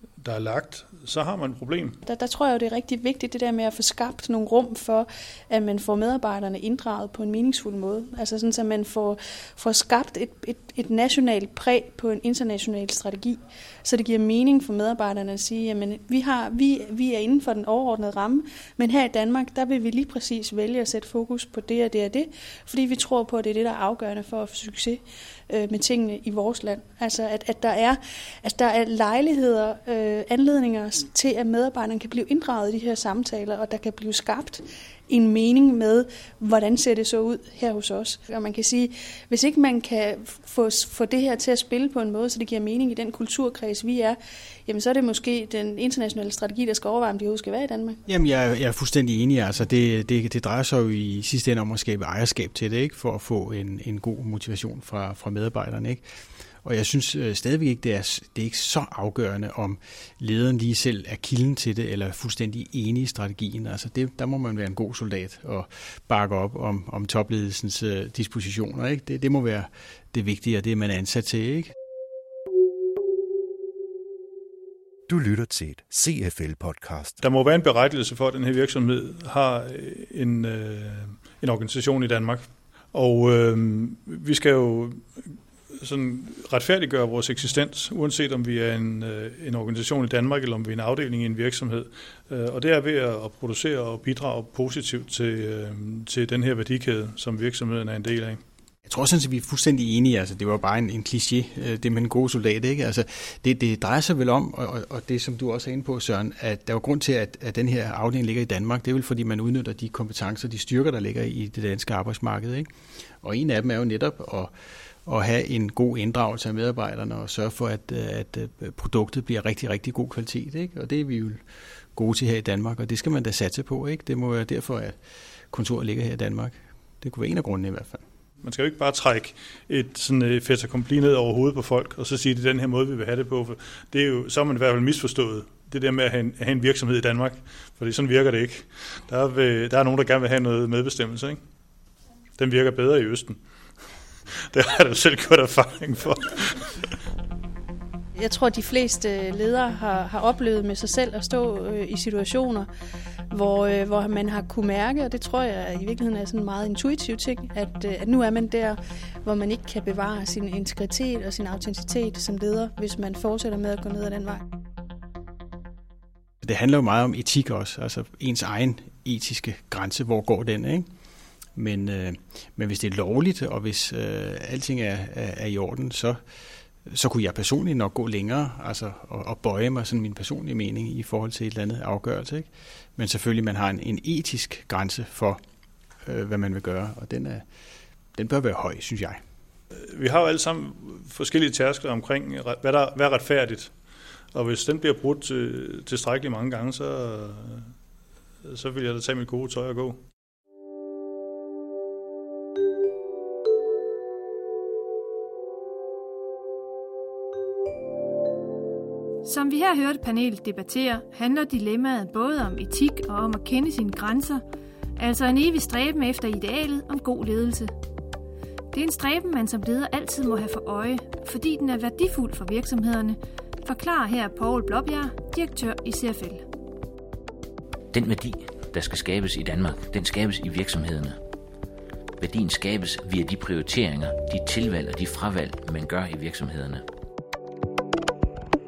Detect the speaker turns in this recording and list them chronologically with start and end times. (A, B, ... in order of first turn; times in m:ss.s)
0:00.2-0:02.0 A
0:02.0-0:48.0 B
0:48.1-0:56.0 C
0:56.6-1:11.7 C
1:15.1-1:17.1 D
1:17.2-1:38.4 A
1:38.8-1:52.7 C
1:53.2-1:54.5 C
1:55.0-2:01.4 C
2:01.9-2:05.0 C
2:05.5-2:08.0 C
2:08.4-2:21.4 A
2:22.4-2:23.4 A
2:24.5-2:26.9 A
2:28.2-2:32.7 B
2:33.3-2:44.4 B
2:46.4-2:50.9 C
2:51.6-2:56.2 C
2:56.9-3:05.4 C
3:06.0-3:07.4 C
3:08.2-3:09.2 C
3:09.9-3:13.7 A
3:14.3-3:17.7 A
3:18.4-3:20.0 A
3:29.2-3:34.4 E
3:35.0-3:37.7 E
3:38.7-3:46.4 E
3:47.9-3:51.2 F
3:52.2-3:56.8 F